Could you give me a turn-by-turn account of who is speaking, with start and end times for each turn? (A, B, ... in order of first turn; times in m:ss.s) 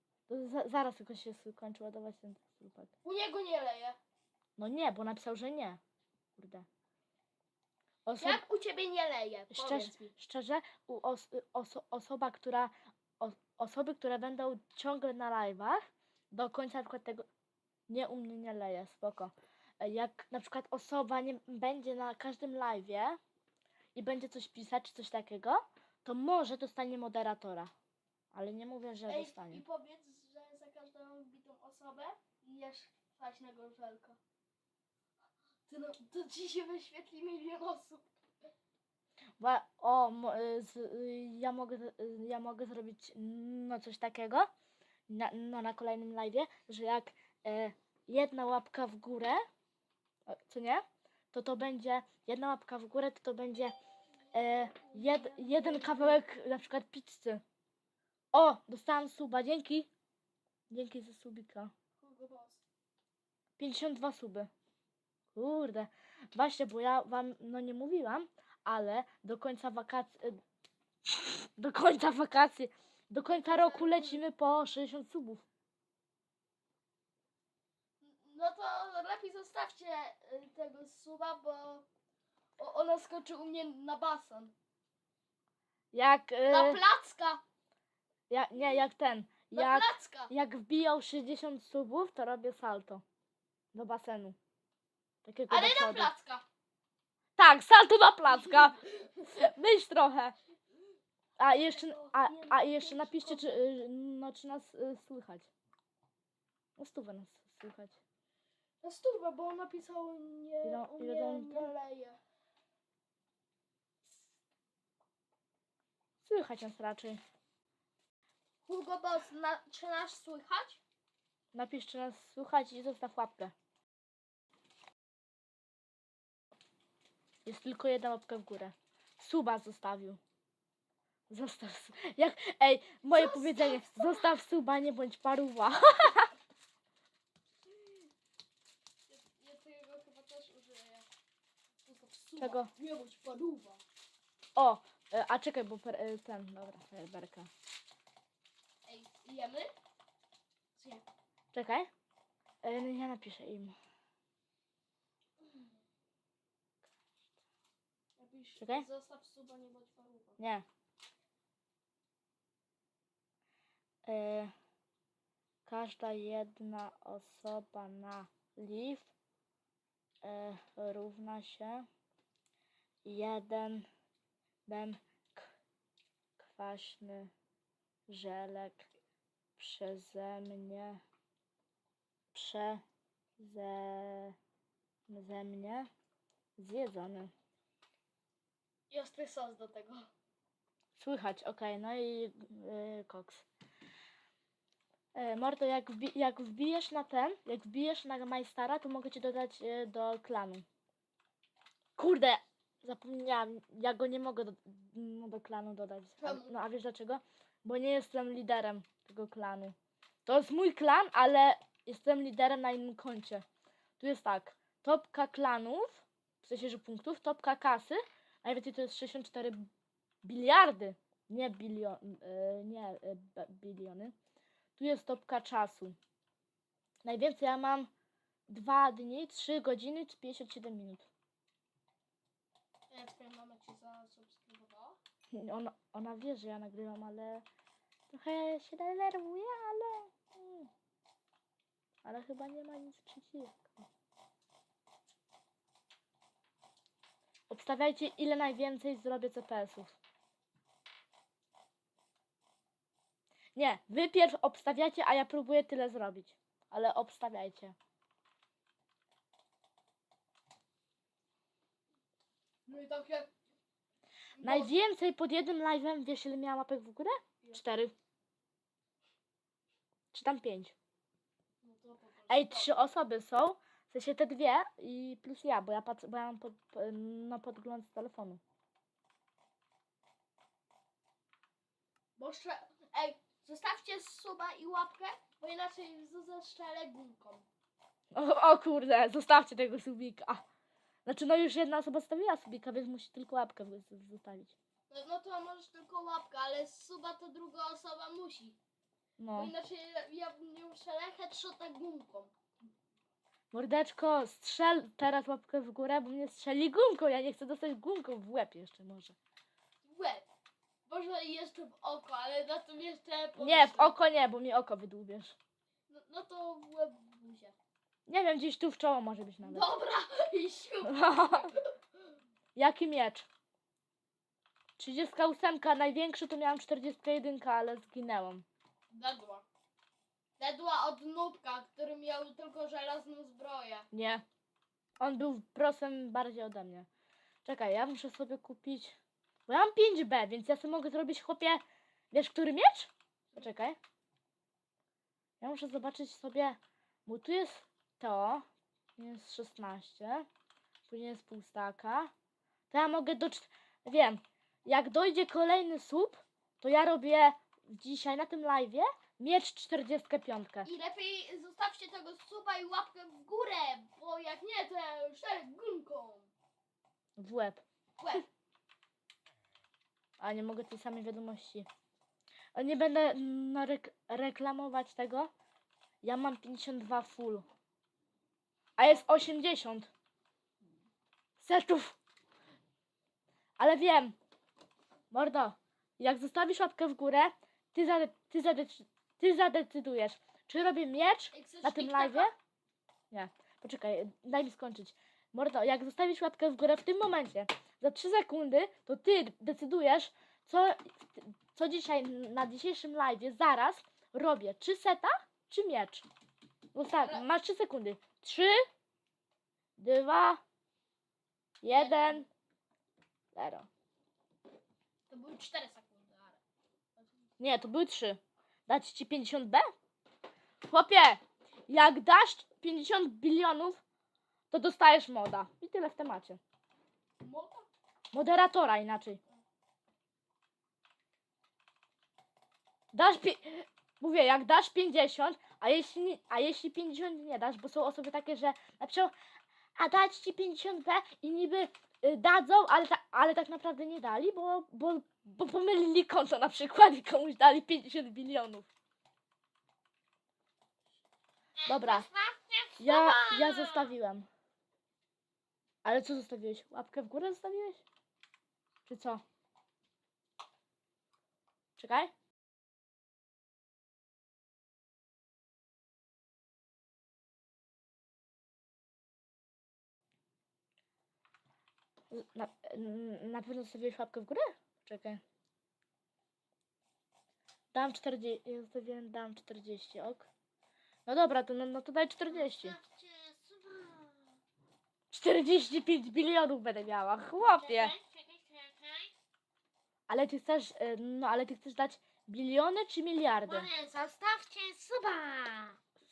0:00.3-0:02.9 A
0:03.0-0:04.0 B
0:04.6-0:05.8 A
0:06.4-0:06.6 A
0:08.0-0:08.4 A
0:08.2-0:10.1 B
0:09.5-0:17.2 A
0:17.9-0:23.2 A
0:23.9-0:27.7 A
0:28.3-0:29.6 A
0:29.1-0:34.2 B
0:35.7-0:38.1 B
0:39.4-0:44.5 A
0:45.1-0:49.4 A
0:50.3-0:53.7 A
0:54.3-0:57.4 A
0:54.5-0:56.2 B
0:58.3-0:59.9 A
1:00.7-1:01.7 A
1:02.0-1:02.6 B
1:03.6-1:04.5 A
1:05.3-1:10.4 A
1:11.0-1:15.4 A
1:13.3-1:14.2 B
1:18.0-1:21.8 B
1:22.6-1:24.5 B
1:25.9-1:26.8 A
1:26.5-1:27.4 B
1:28.3-1:33.0 A
1:29.5-1:30.3 B
1:33.7-1:34.4 A
1:35.2-1:36.1 A
1:35.5-1:36.4 B
1:37.4-1:40.3 A
1:38.3-1:39.3 B
1:41.4-1:45.5 A
1:41.7-1:43.6 B
1:46.8-1:48.0 A
1:48.8-1:52.2 B
1:50.6-1:51.7 A
1:56.2-1:57.2 A
1:58.6-2:00.8 B
2:01.5-2:03.5 A
2:07.4-2:10.2 A
2:11.3-2:16.3 A
2:13.0-2:14.3 B
2:19.1-2:21.1 B
2:21.8-2:23.8 B
2:22.4-2:22.7 A
2:24.6-2:27.5 A
2:28.8-2:29.7 B
2:30.7-2:31.0 B
2:31.5-2:31.9 A
2:32.6-2:33.7 A
2:35.4-2:35.7 B
2:38.2-2:40.4 B
2:38.6-2:38.8 A
2:40.4-2:40.6 A
2:44.0-2:44.5 A
2:45.6-2:49.1 A
2:50.2-2:51.9 A
2:53.0-2:53.9 A
2:54.7-2:55.5 A
2:56.4-2:57.3 A
2:58.1-2:58.9 A
2:59.6-3:01.0 A
3:02.3-3:02.8 A
3:03.4-3:04.4 A
3:05.1-3:05.9 A
3:06.6-3:07.3 A
3:08.9-3:10.1 B
3:11.0-3:13.4 A
3:15.1-3:20.6 A
3:22.0-3:33.4 A
3:26.2-3:26.5 B
3:34.0-3:39.7 A
3:40.2-3:44.1 A
3:44.8-3:46.0 A
3:47.0-3:47.9 A
3:48.5-3:51.1 A
3:52.9-3:55.0 B
3:55.3-3:57.4 A
3:58.1-4:00.7 A
4:02.0-4:03.9 A
4:07.5-4:10.0 A
4:13.6-4:17.7 A
4:22.6-4:23.3 B
4:24.4-4:24.7 B
4:24.4-4:27.9 A
4:30.1-4:30.7 A
4:31.6-4:32.8 B
4:32.3-4:38.4 A
4:42.2-4:47.5 B
4:48.1-4:50.4 A
4:51.0-4:54.5 A
4:54.9-4:58.6 B
4:59.2-4:59.5 A
4:59.3-5:02.3 B
5:03.5-5:09.2 A
5:09.8-5:10.3 B
5:10.8-5:14.0 B
5:13.4-5:15.4 A
5:15.9-5:17.6 B
5:18.1-5:19.7 A
5:19.4-5:22.1 B
5:20.8-5:21.5 A
5:22.6-5:23.3 A
5:24.8-5:28.4 A
5:28.9-5:29.4 B
5:30.4-5:33.9 B
5:33.9-5:34.2 A
5:35.0-5:36.9 A
5:37.4-5:43.8 A
5:45.4-5:48.4 A
5:49.0-5:50.3 A
5:50.9-5:52.1 A
5:52.7-6:00.7 A
6:00.6-6:06.3 B
6:07.2-6:07.6 A
6:08.0-6:08.2 B
6:10.2-6:11.7 A
6:12.5-6:15.3 A
6:16.0-6:17.5 A
6:18.8-6:19.9 A
6:21.4-6:22.0 A
6:23.6-6:24.2 A
6:25.1-6:32.3 A
6:31.3-6:32.3 B
6:33.1-6:46.0 A
6:46.7-6:48.6 A
6:47.0-6:47.2 B
6:49.8-6:50.4 A
6:51.6-6:52.3 A
6:51.7-6:52.2 B
6:53.3-6:53.7 A
6:55.1-6:56.4 B
6:57.0-6:57.3 B
6:57.4-6:59.7 A
7:00.7-7:03.8 A
7:04.5-7:06.4 A
7:07.2-7:07.7 B
7:08.1-7:09.2 A
7:12.9-7:19.1 A
7:19.8-7:28.7 A
7:31.6-7:33.9 C
7:31.7-7:32.1 A
7:32.8-7:34.3 A
7:35.8-7:37.8 A
7:38.8-7:39.2 A
7:41.8-7:42.1 A
7:52.1-7:55.2 A
7:57.7-8:00.3 A
8:01.0-8:02.8 A
8:02.3-8:04.3 C
8:05.1-8:07.9 A
8:07.6-8:09.1 C
8:10.1-8:13.7 A
8:13.5-8:15.8 C